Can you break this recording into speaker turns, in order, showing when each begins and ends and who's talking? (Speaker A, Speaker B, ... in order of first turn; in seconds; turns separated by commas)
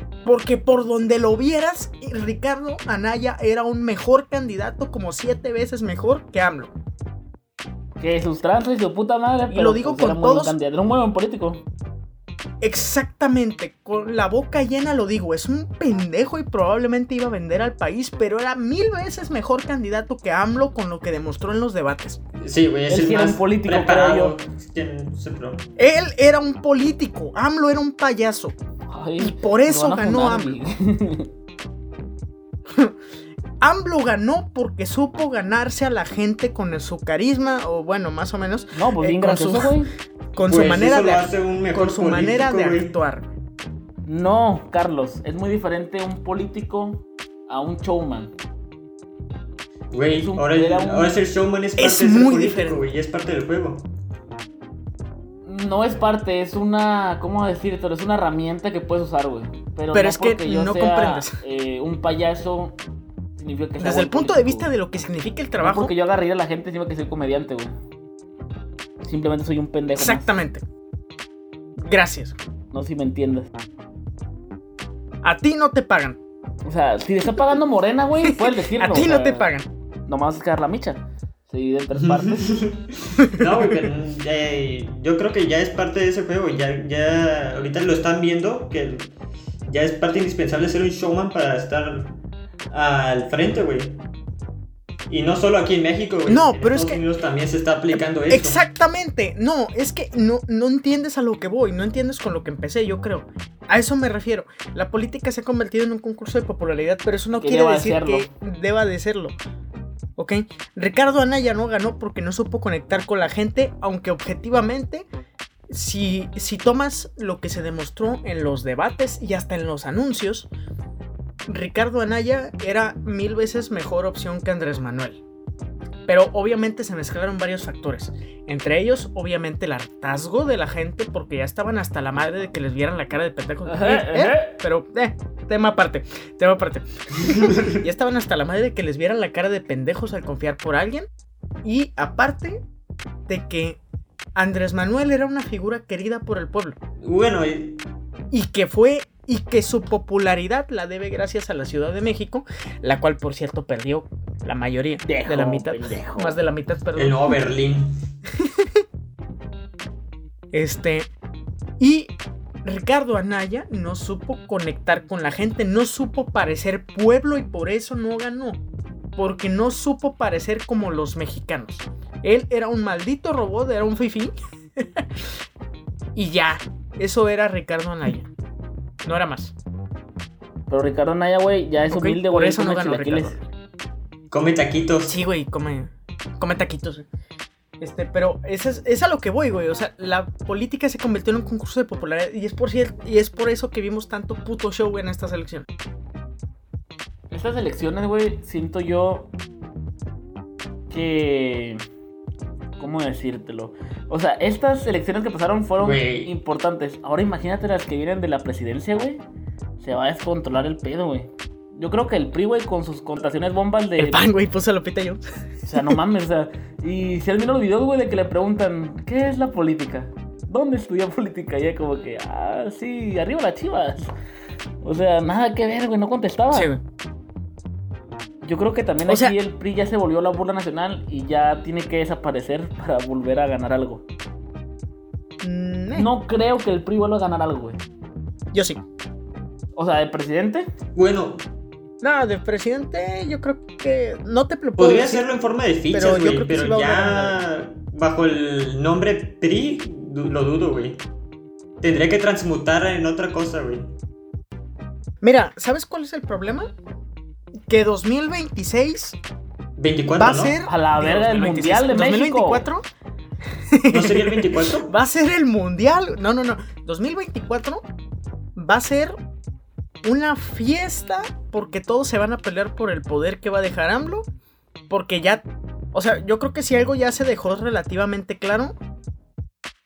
Speaker A: 0.2-6.7, Speaker B: 8.0-11.6, Speaker A: 9.5-10.6, Speaker A: 12.6-22.2, Speaker C: 22.4-25.6, Speaker B: 22.9-24.4, Speaker A: 25.8-28.6, Speaker B: 28.9-31.3, Speaker A: 29.2-30.6, Speaker A: 32.7-33.0, Speaker A: 33.6-39.8, Speaker B: 38.8-39.9, Speaker A: 40.4-43.3, Speaker C: 40.4-42.9, Speaker B: 44.1-48.3, Speaker C: 49.9-53.9, Speaker B: 50.2-51.2, Speaker A: 51.8-52.8, Speaker B: 55.5-62.8, Speaker A: 59.9-61.4, Speaker B: 63.4-64.7, Speaker A: 63.8-65.9, Speaker B: 65.6-67.8, Speaker B: 69.0-70.3, Speaker A: 70.0-70.6, Speaker A: 71.8-72.4, Speaker B: 72.7-73.5, Speaker A: 75.2-76.2, Speaker B: 76.7-79.5, Speaker A: 78.2-79.7, Speaker B: 80.1-82.6, Speaker C: 81.9-89.1, Speaker A: 83.2-83.8, Speaker C: 89.7-92.2, Speaker C: 92.7-94.0, Speaker C: 95.1-98.6, Speaker A: 96.3-97.0, Speaker A: 97.9-109.4, Speaker B: 107.4-108.3, Speaker A: 110.2-115.1, Speaker A: 115.7-120.5, Speaker A: 121.5-125.2, Speaker A: 126.1-141.1, Speaker B: 133.7-134.6, Speaker C: 137.2-137.8, Speaker A: 141.6-142.6, Speaker A: 143.3-143.8, Speaker A: 144.4-146.8, Speaker C: 147.0-147.8, Speaker A: 148.3-157.4, Speaker B: 155.0-156.4, Speaker C: 157.0-157.9, Speaker A: 158.4-158.8, Speaker A: 160.5-161.1, Speaker A: 161.8-162.1, Speaker A: 162.7-168.6, Speaker A: 169.2-175.2, Speaker A: 176.2-178.3, Speaker A: 179.0-179.6, Speaker B: 180.7-183.4, Speaker A: 181.9-183.4, Speaker C: 184.3-185.1, Speaker A: 185.1-187.1, Speaker A: 187.8-195.7, Speaker B: 197.3-199.3, Speaker B: 200.9-201.8, Speaker B: 202.8-209.2, Speaker C: 205.8-206.3, Speaker B: 209.8-214.3, Speaker A: 214.0-215.2, Speaker B: 215.7-224.1, Speaker B: 224.8-226.7, Speaker A: 226.5-226.8, Speaker B: 228.4-234.0, Speaker A: 229.1-229.3, Speaker A: 235.4-236.1, Speaker B: 235.9-237.8, Speaker A: 238.5-238.8, Speaker B: 239.8-240.7, Speaker C: 240.9-241.4, Speaker A: 242.0-245.3, Speaker C: 244.8-251.0, Speaker A: 245.9-247.4, Speaker C: 251.8-253.9, Speaker A: 255.2-256.7, Speaker A: 257.7-259.2, Speaker C: 259.8-260.6, Speaker A: 260.1-262.9, Speaker B: 260.6-262.7, Speaker A: 263.7-267.8, Speaker C: 263.9-264.9, Speaker A: 268.6-269.1, Speaker A: 270.0-274.3, Speaker A: 274.9-278.8